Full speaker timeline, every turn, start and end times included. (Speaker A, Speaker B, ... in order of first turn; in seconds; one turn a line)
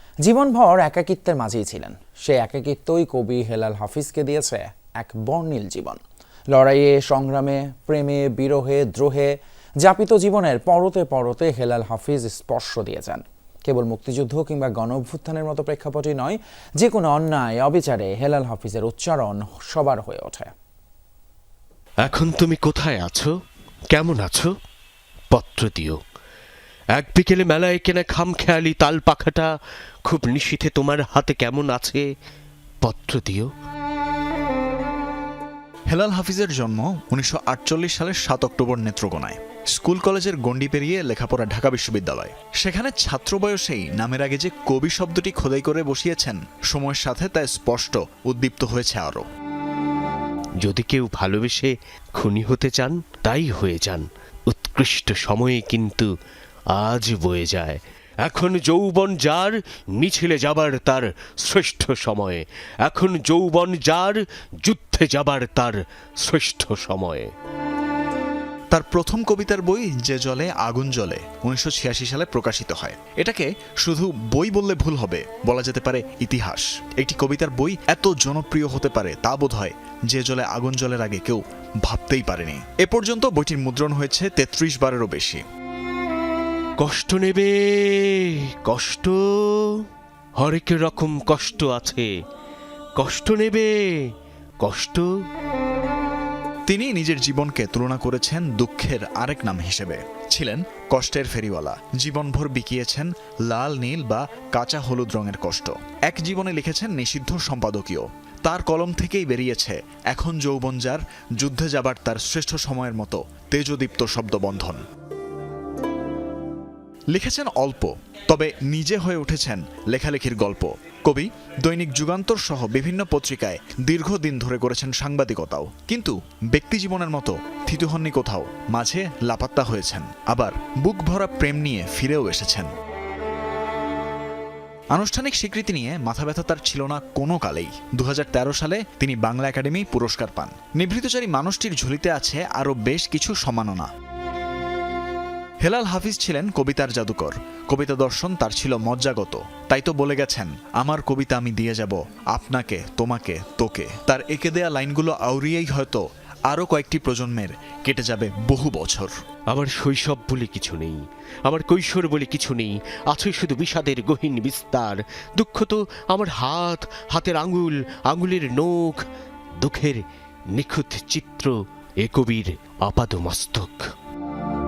Speaker A: 0.2-6.0
Speaker A: 6.5-20.5
Speaker B: 22.0-23.3
Speaker B: 23.9-24.5
Speaker B: 25.3-26.0
Speaker B: 26.9-29.5
Speaker B: 30.0-32.1
Speaker B: 32.8-33.5
Speaker C: 35.9-49.2
Speaker B: 50.6-56.1
Speaker B: 56.7-67.3
Speaker C: 68.7-85.4
Speaker B: 86.8-89.8
Speaker B: 90.4-92.1
Speaker B: 93.0-94.1
Speaker B: 94.6-95.1
Speaker C: 96.7-114.8
Speaker C: 117.1-132.7
Speaker C: 134.9-143.9
Speaker C: 145.6-159.1
Speaker B: 159.5-169.0
Speaker B: 169.6-170.0
Speaker B: 170.5-173.9